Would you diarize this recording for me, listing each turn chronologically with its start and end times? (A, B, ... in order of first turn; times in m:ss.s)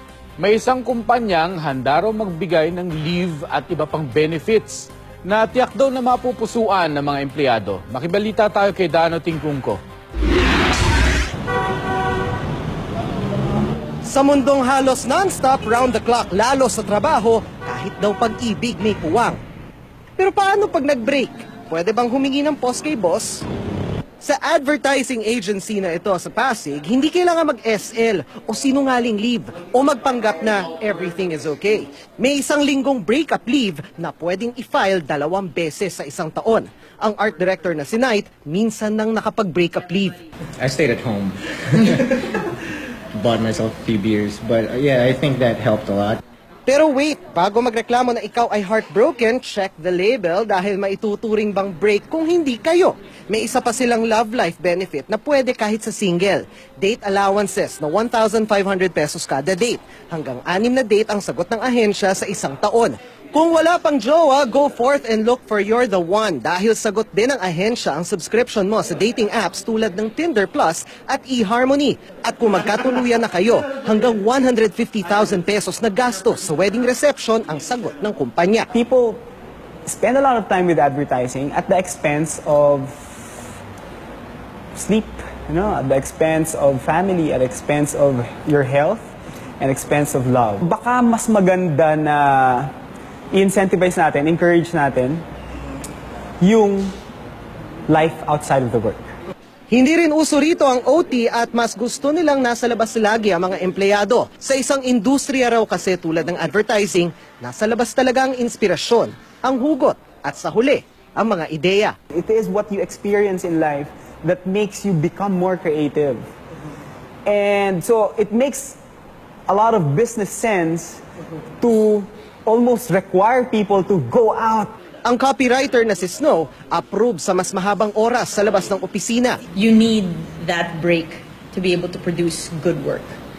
0:00.4-0:09.8 A
0:14.0-0:19.4 B
0:20.2-0:23.4 B
0:24.2-0:40.2 B
0:40.6-0:42.2 C
0:43.1-0:46.2 C
0:46.7-1:18.7 B
1:18.7-1:19.2 D
1:19.9-1:23.4 D
1:24.7-1:32.7 D
1:33.3-1:35.2 D
1:36.4-1:37.0 D
1:37.9-1:39.0 D
1:39.7-1:52.0 B
1:52.1-1:56.3 D
1:57.2-1:58.8 D
1:59.5-2:01.0 D
2:01.6-2:04.7 D
2:05.0-2:09.4 B
2:09.5-2:13.2 E